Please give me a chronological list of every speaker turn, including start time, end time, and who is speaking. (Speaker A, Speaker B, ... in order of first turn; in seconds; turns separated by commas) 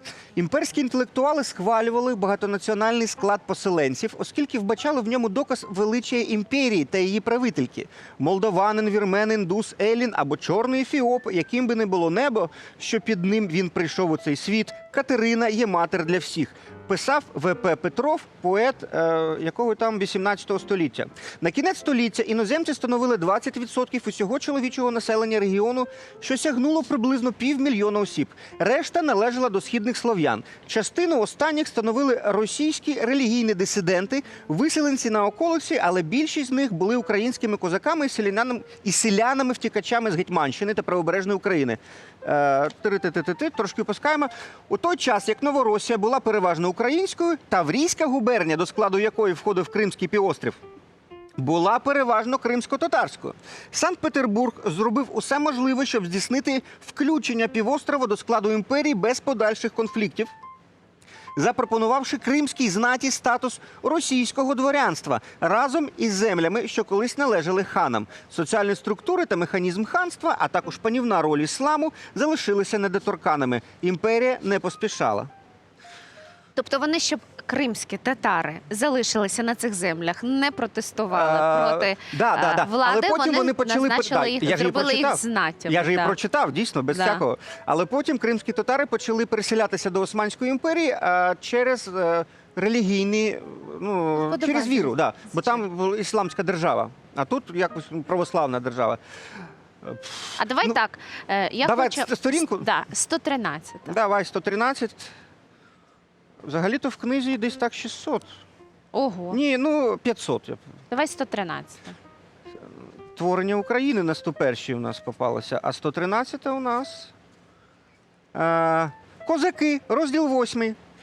Speaker A: 0.3-50.6, Speaker A: 51.4-60.3, Speaker A: 61.4-75.3, Speaker B: 76.5-86.2, Speaker A: 81.1-99.0, Speaker B: 86.9-87.2, Speaker B: 94.2-95.6, Speaker A: 99.8-100.8, Speaker B: 100.4-104.0, Speaker A: 101.6-102.7, Speaker A: 103.9-105.1, Speaker A: 106.4-108.3, Speaker B: 108.9-109.4, Speaker A: 109.3-110.6, Speaker B: 110.9-112.0, Speaker A: 113.1-117.1, Speaker A: 118.3-120.8